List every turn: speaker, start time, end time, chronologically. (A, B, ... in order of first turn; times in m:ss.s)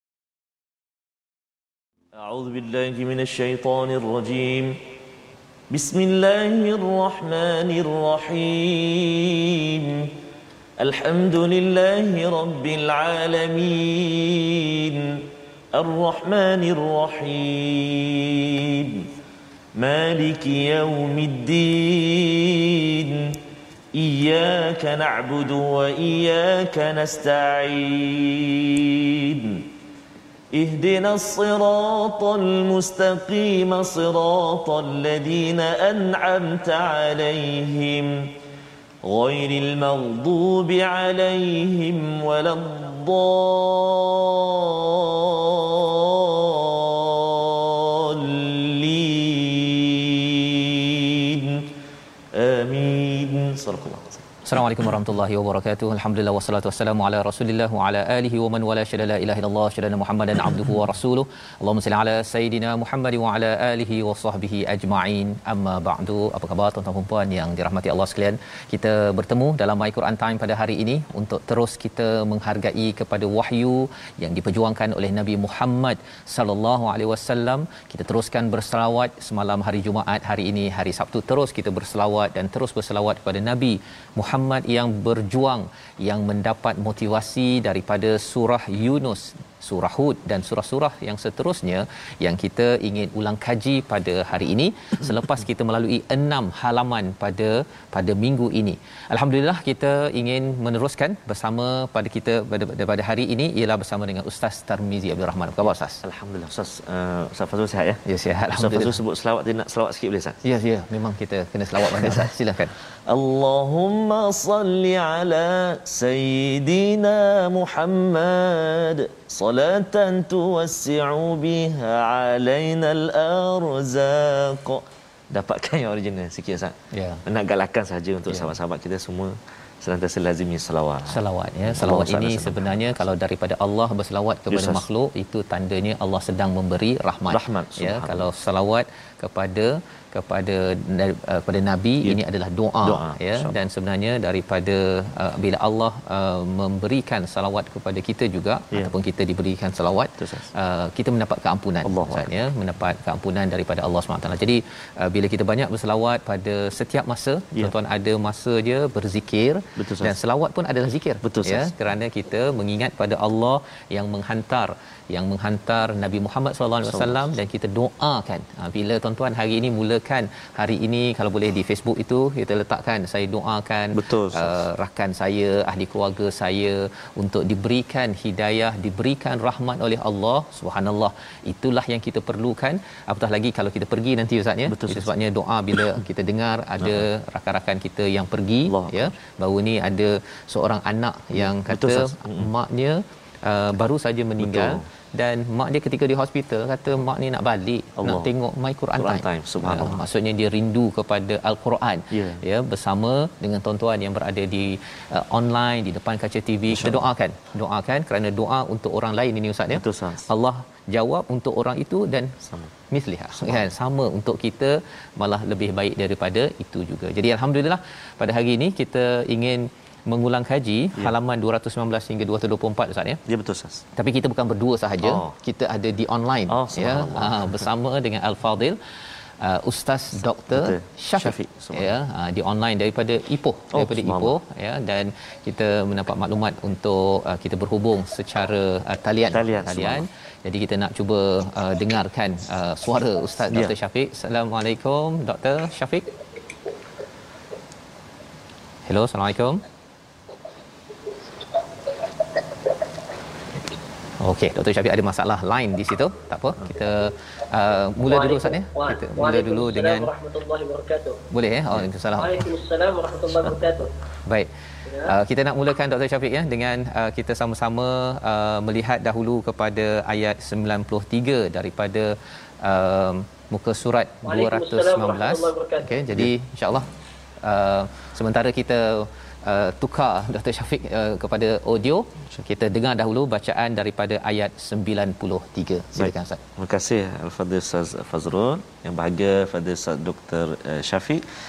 0:02.1-0:04.8 A
0:05.7-0:10.1 A
0:10.8-0:19.1 A
0:19.8-0:23.4 A
0:23.9-0:29.7 A
0:30.5-0:38.3 A
0:39.0-0:51.7 A
0:52.3-0:54.2 A
0:54.4-1:46.0 B
1:46.0-1:50.4 A
1:48.0-1:49.0 B
1:50.4-1:52.7 B
1:51.9-1:52.2 A
1:53.1-2:12.8 A
2:06.9-2:07.2 B
2:08.3-2:08.5 B
2:11.1-3:32.4 B
2:14.5-2:14.8 A
2:17.3-2:18.3 A
2:22.8-2:23.6 A
2:30.2-2:30.5 A
2:31.8-2:32.3 A
2:39.8-2:40.2 A
2:41.2-2:41.7 A
2:46.8-2:47.3 A
2:53.9-2:54.6 A
3:04.7-3:05.1 A
3:06.8-3:07.0 A
3:08.7-3:09.1 A
3:11.3-3:12.5 A
3:14.4-3:14.8 A
3:18.0-3:18.3 A
3:19.0-3:20.0 A
3:22.1-3:22.4 A
3:26.7-3:27.0 A
3:29.7-3:30.2 A
3:32.4-3:32.7 A
3:32.9-3:43.2 B
3:33.3-3:33.7 A
3:43.2-3:43.8 A
3:44.0-3:48.8 B
3:45.0-3:45.3 A
3:46.5-3:47.7 A
3:49.4-4:06.1 B
3:50.5-3:51.9 A
3:53.7-3:54.4 A
3:59.3-4:00.0 A
4:08.8-4:09.6 B
4:14.2-4:20.1 B
4:18.0-4:21.2 C
4:21.3-4:22.5 B
4:22.2-4:23.9 C
4:24.9-4:25.1 C
4:25.0-4:36.9 B
4:34.2-4:35.9 C
4:37.4-4:46.4 B
4:46.0-4:51.2 A